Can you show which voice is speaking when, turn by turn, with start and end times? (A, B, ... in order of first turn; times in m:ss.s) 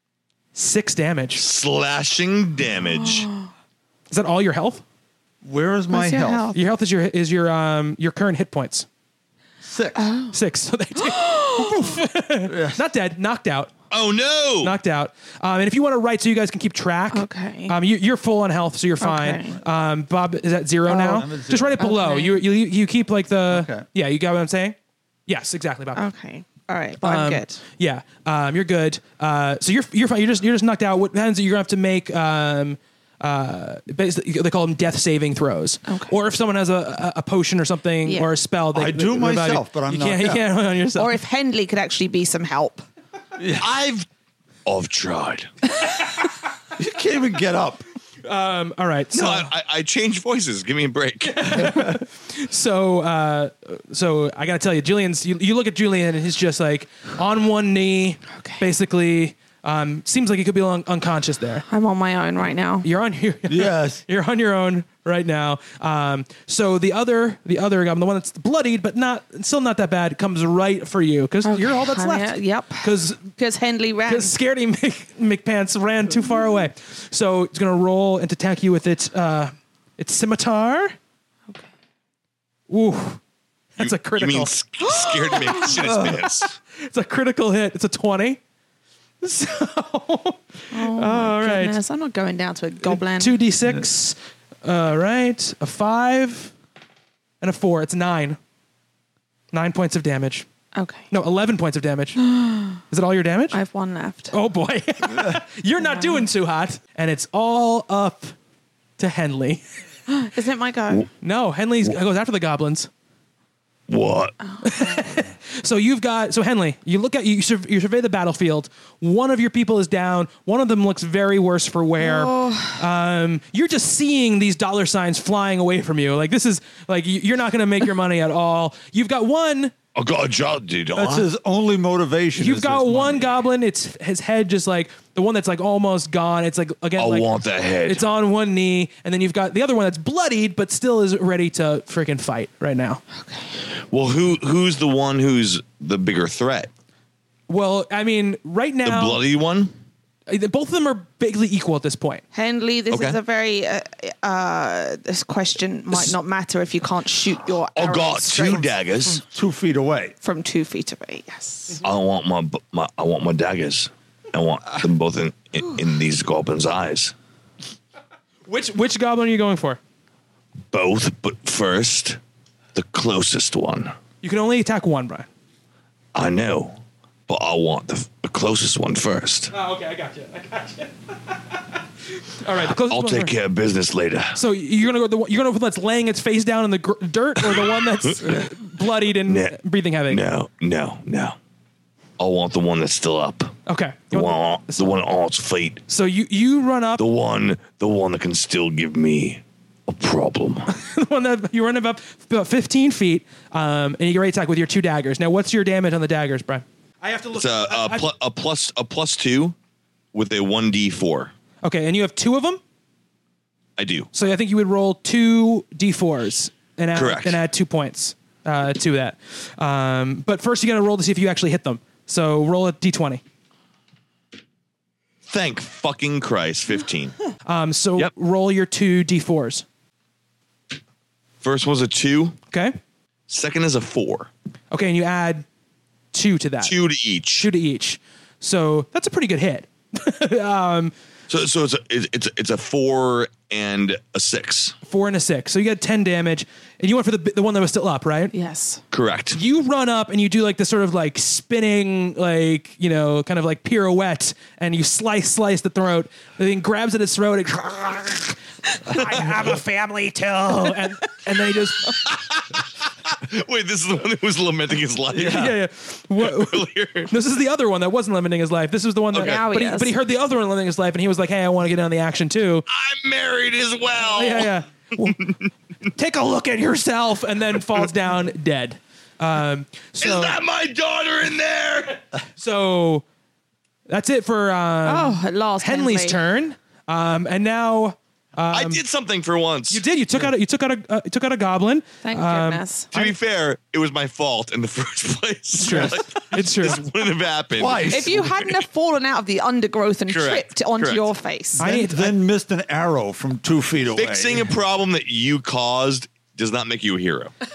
0:00.5-0:01.4 A
0:01.4-0:03.3 B
0:02.8-0:03.5 C
0:04.1-0:04.8 A
0:05.4-0:06.5 D
0:05.9-0:06.6 C
0:06.5-0:08.9 A
0:09.6-0:10.0 D
0:10.0-0:10.4 C
0:10.3-0:13.7 A
0:10.9-0:12.0 C
0:12.5-0:12.8 D
0:13.9-0:14.8 B
0:14.6-0:26.0 A
0:17.1-0:17.8 C
0:19.0-0:19.6 C
0:20.9-0:21.2 C
0:20.9-0:21.8 D
0:21.8-0:22.4 C
0:23.5-0:23.8 D
0:25.9-0:27.6 C
0:27.0-0:41.2 A
0:35.9-0:36.1 C
0:38.0-0:38.3 C
0:38.7-0:40.4 D
0:41.0-0:42.8 C
0:43.4-0:43.7 D
0:43.6-0:44.1 B
0:44.6-0:45.5 B
0:46.8-0:47.8 D
0:48.2-0:49.5 A
0:49.1-0:51.8 B
0:51.3-1:01.6 A
0:58.3-0:58.6 C
1:01.7-1:02.9 C
1:02.8-1:13.3 A
1:03.5-1:04.0 D
1:11.4-1:14.3 C
1:14.1-1:20.9 A
1:22.7-1:23.2 A
1:23.8-1:24.5 A
1:23.8-1:26.5 B
1:24.9-1:25.8 C
1:26.8-1:28.4 A
1:29.2-1:31.8 A
1:30.7-1:33.4 C
1:32.8-1:36.5 A
1:37.4-1:38.4 A
1:39.5-1:40.4 A
1:40.7-1:41.1 C
1:41.1-1:42.2 A
1:42.2-1:42.8 C
1:42.9-1:43.6 A
1:43.5-1:44.4 C
1:44.3-1:48.3 A
1:45.8-1:46.3 C
1:49.0-1:49.6 A
1:50.1-1:51.1 C
1:51.2-1:52.9 A
1:53.9-1:54.3 B
1:54.5-1:55.0 C
1:54.6-2:09.7 A
2:02.0-2:02.8 C
2:09.9-2:11.3 B
2:10.9-2:13.3 D
2:12.4-2:17.3 A
2:17.0-2:18.0 B
2:17.8-2:23.0 A
2:23.1-2:23.5 C
2:23.9-2:26.7 B
2:27.5-2:29.2 A
2:28.8-2:29.7 B
2:30.3-2:32.2 A
2:32.3-2:38.7 C
2:32.9-2:33.2 B
2:37.7-2:39.2 B
2:39.0-2:40.2 D
2:40.2-2:41.8 C
2:41.8-2:47.1 B
2:48.4-2:49.8 A
2:50.7-2:52.2 B
2:52.7-2:53.9 B
2:54.2-2:55.3 A
2:56.1-2:56.8 B
2:57.3-2:59.5 B
2:59.5-3:01.6 A
3:02.3-3:03.3 A
3:02.8-3:04.4 B
3:04.3-3:10.2 A
3:07.4-3:08.6 B
3:09.2-3:09.6 B
3:10.1-3:11.4 B
3:12.2-3:13.6 B
3:13.7-3:15.0 A
3:14.1-3:15.8 B
3:15.9-3:17.0 A
3:17.0-3:20.7 B
3:20.7-3:28.1 A
3:27.4-3:29.5 B
3:30.1-3:31.3 B
3:31.6-3:32.6 A
3:33.8-3:34.1 B
3:34.1-3:43.2 A
3:36.9-3:37.4 B
3:45.3-3:47.1 B
3:47.4-3:49.6 A
3:51.4-3:52.4 B
3:53.3-3:54.3 B
3:54.7-3:55.4 A
3:56.1-3:56.7 A
3:56.6-3:57.5 B
3:57.4-4:00.9 A
4:01.3-4:04.8 B
4:04.8-4:08.3 A
4:08.3-4:08.8 C
4:08.9-4:09.4 B
4:09.3-4:22.0 A
4:22.0-4:25.5 B
4:25.1-4:32.6 A
4:25.1-4:25.5 D
4:26.2-4:27.1 B
4:29.1-4:29.4 B
4:29.1-4:29.9 C
4:32.7-4:34.5 B
4:34.1-4:35.2 A
4:35.0-4:35.3 B
4:35.9-4:40.4 A
4:40.0-4:42.0 B
4:42.4-4:43.0 A
4:43.9-4:48.8 A
4:44.8-4:46.2 C
4:48.5-4:49.8 B
4:49.7-4:52.6 A
4:52.0-4:53.1 C
4:52.9-4:58.6 B
4:55.6-4:56.8 A
4:55.6-4:56.0 D
4:57.5-4:58.3 D
4:57.9-5:01.6 C
5:00.1-5:01.0 B
5:01.6-5:04.5 D
5:01.6-5:02.2 A
5:03.9-5:07.3 B